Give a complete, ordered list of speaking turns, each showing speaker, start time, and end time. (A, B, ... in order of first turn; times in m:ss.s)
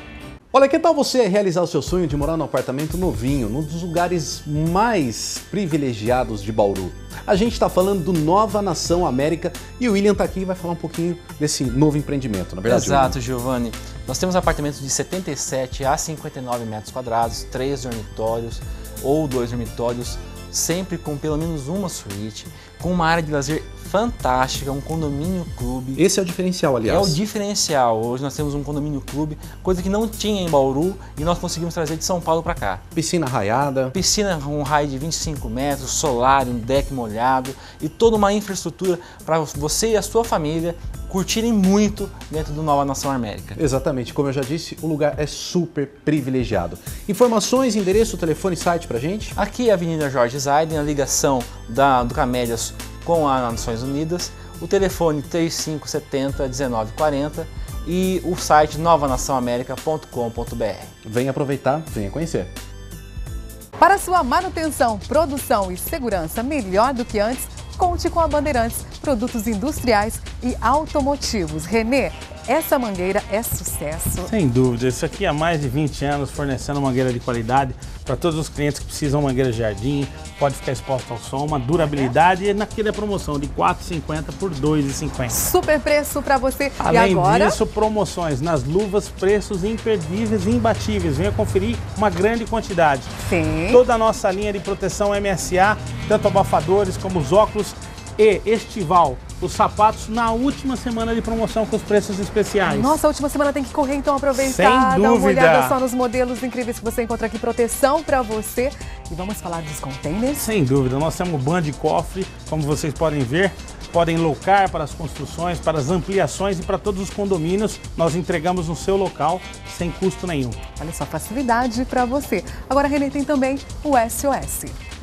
0:00.5-0:13.1 A
0:12.7-0:26.0 B
0:26.0-0:27.2 A
0:26.8-0:32.8 B
0:32.9-0:33.9 A
0:33.9-0:43.6 B
0:43.6-0:49.3 A
0:49.4-1:00.9 B
1:01.0-1:02.5 A
1:03.8-1:14.3 C
1:14.2-1:25.4 D
1:25.3-1:27.6 C
1:26.8-1:33.1 D
1:33.2-1:33.8 C
1:33.7-1:43.0 D
1:42.6-1:50.4 C
1:44.3-1:45.7 D
1:50.4-2:00.6 D
2:00.8-2:04.8 C